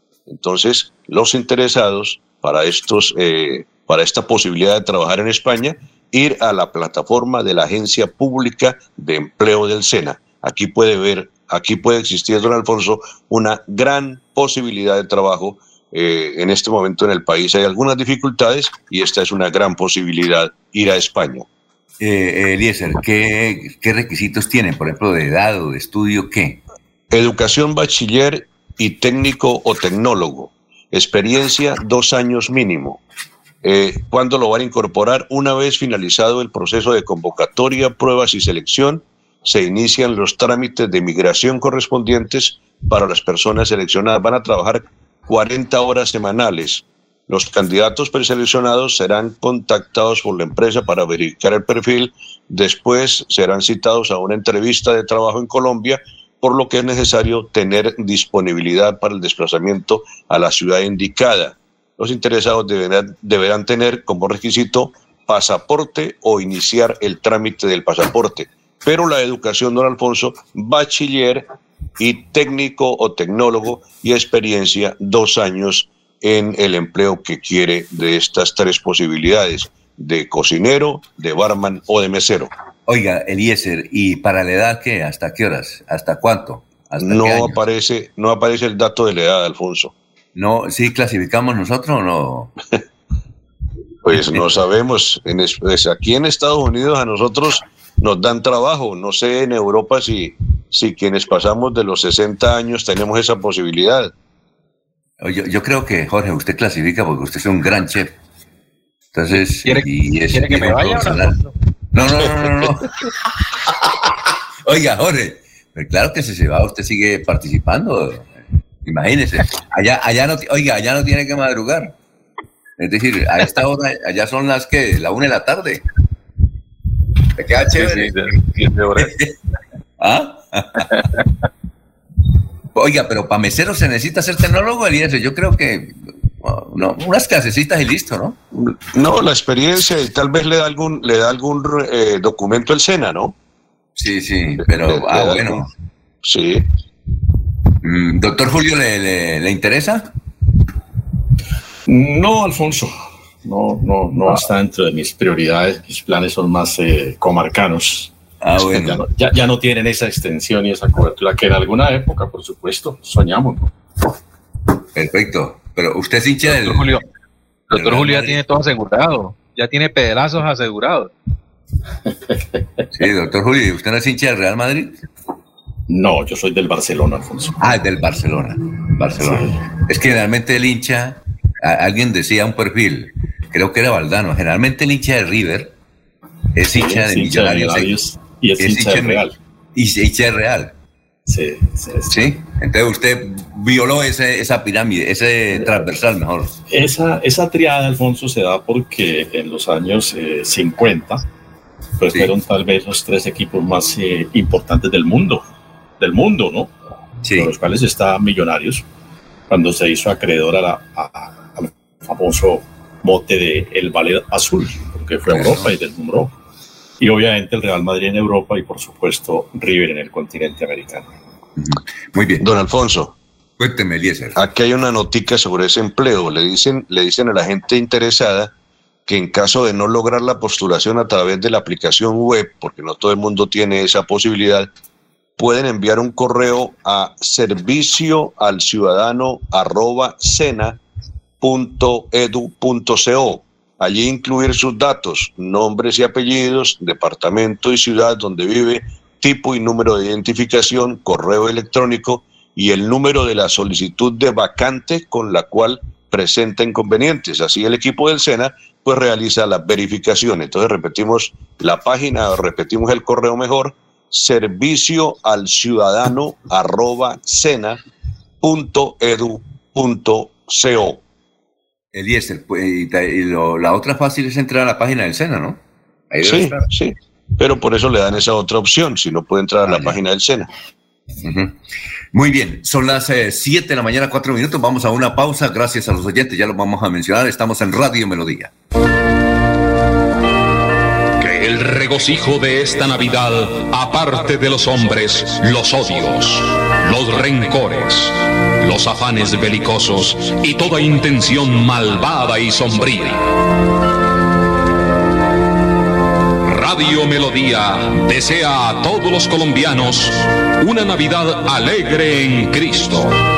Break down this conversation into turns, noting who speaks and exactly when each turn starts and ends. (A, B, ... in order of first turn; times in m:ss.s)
0:00.3-0:21.5 A
0:22.0-0:26.6 B
0:27.1-0:33.0 A
0:33.6-1:22.5 A
1:22.9-1:27.6 B
1:27.0-1:29.9 A
1:30.3-1:32.5 B
1:34.0-1:44.1 A
1:34.1-1:34.6 B
1:45.2-1:48.1 B
1:49.1-1:51.4 B
1:49.6-1:51.5 C
1:51.9-1:52.9 B
1:54.6-1:58.3 B
1:58.8-2:01.9 B
2:02.8-2:05.8 B
2:07.4-2:08.1 B
2:07.8-2:09.1 C
2:09.0-2:09.3 B
2:10.0-2:10.8 B
2:10.9-2:11.2 C
2:12.7-2:18.4 B
2:18.5-2:23.4 A
2:24.0-2:25.7 B
2:24.6-2:25.6 A
2:26.2-2:26.6 A
2:27.8-2:30.1 B
2:31.9-2:32.9 D
2:33.4-2:43.7 D
2:38.4-2:39.0 B
2:44.9-2:47.0 B
2:46.4-2:47.0 C
2:47.7-2:51.1 C
2:47.7-2:48.4 B
2:52.9-2:55.0 B
2:55.9-2:57.5 D
2:57.6-3:05.7 B
2:59.2-2:59.5 D
3:06.5-3:07.9 B
3:06.7-3:09.4 D
3:08.6-3:10.7 B
3:11.3-3:12.2 D
3:12.1-3:16.5 B
3:16.7-3:21.2 D
3:22.0-3:25.4 D
3:26.0-3:26.7 D
3:27.2-3:27.5 B
3:27.3-3:28.8 D
3:29.5-3:36.3 D
3:35.3-3:35.7 B
3:37.0-3:41.1 D
3:41.6-3:42.4 B
3:42.4-3:43.2 A
3:43.6-3:44.4 B
3:44.4-3:48.5 A
3:49.1-3:54.7 A
3:55.4-4:00.8 A
4:01.4-4:27.8 A
4:28.4-4:31.0 A
4:31.9-4:35.6 B
4:36.1-4:36.6 B
4:36.2-4:40.5 A
4:39.6-4:40.0 B
4:41.2-4:41.5 B
4:42.1-4:48.5 B
4:51.2-5:03.2 E
5:06.4-5:13.2 E